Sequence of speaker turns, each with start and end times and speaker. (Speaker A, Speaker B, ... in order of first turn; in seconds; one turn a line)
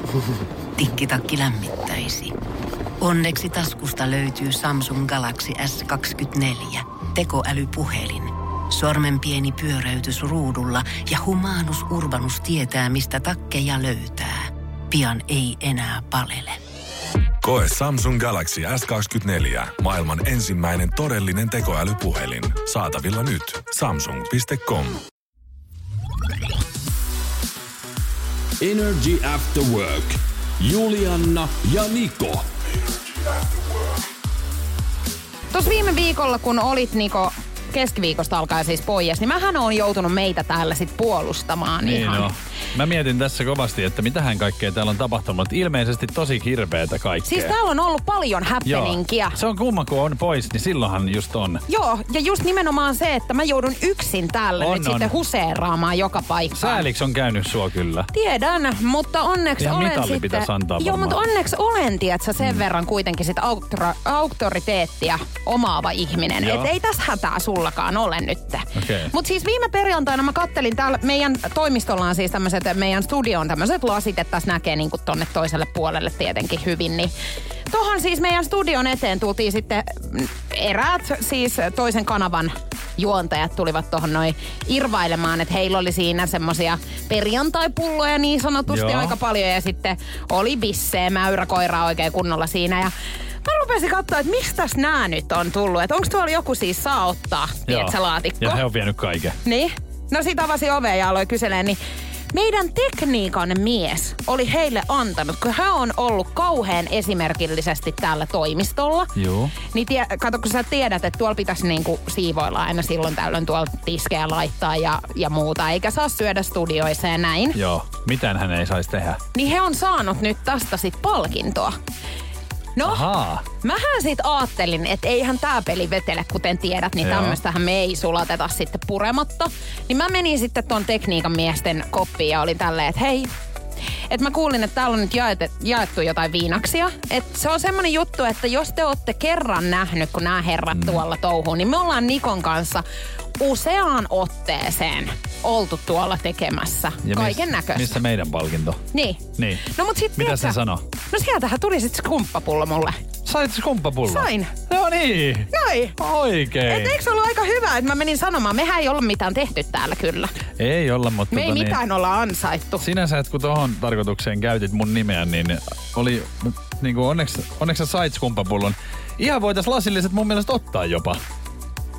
Speaker A: 0.8-2.3
Speaker A: 3.0-16.6
Speaker B: 17.4-25.0
Speaker C: 28.6-32.5
Speaker D: 35.5-42.3
Speaker E: 41.8-47.5
Speaker D: 47.2-49.4
Speaker E: 48.6-51.6
Speaker D: 51.7-56.8
Speaker E: 54.6-55.1
Speaker E: 56.5-58.1
Speaker D: 58.1-77.1
Speaker E: 59.6-61.2
Speaker E: 62.4-62.6
Speaker E: 66.4-66.7
Speaker E: 68.7-69.1
Speaker D: 77.7-92.9
Speaker E: 88.7-89.2
Speaker D: 93.4-98.6
Speaker E: 97.7-99.4
Speaker D: 99.4-101.8
Speaker D: 102.3-109.1
Speaker E: 109.2-109.5
Speaker D: 109.7-117.6
Speaker E: 117.5-119.2
Speaker D: 119.3-121.7
Speaker D: 122.8-133.3
Speaker E: 122.8-123.4
Speaker E: 127.0-127.4
Speaker D: 134.1-142.8
Speaker E: 140.7-141.0
Speaker D: 143.4-148.0
Speaker E: 147.0-148.8
Speaker D: 148.9-150.6
Speaker E: 149.4-150.8
Speaker D: 151.1-152.9
Speaker E: 153.2-157.0
Speaker D: 154.1-154.6
Speaker D: 155.5-155.9
Speaker D: 156.7-160.3
Speaker E: 160.6-161.8
Speaker D: 161.3-162.8
Speaker E: 162.8-171.2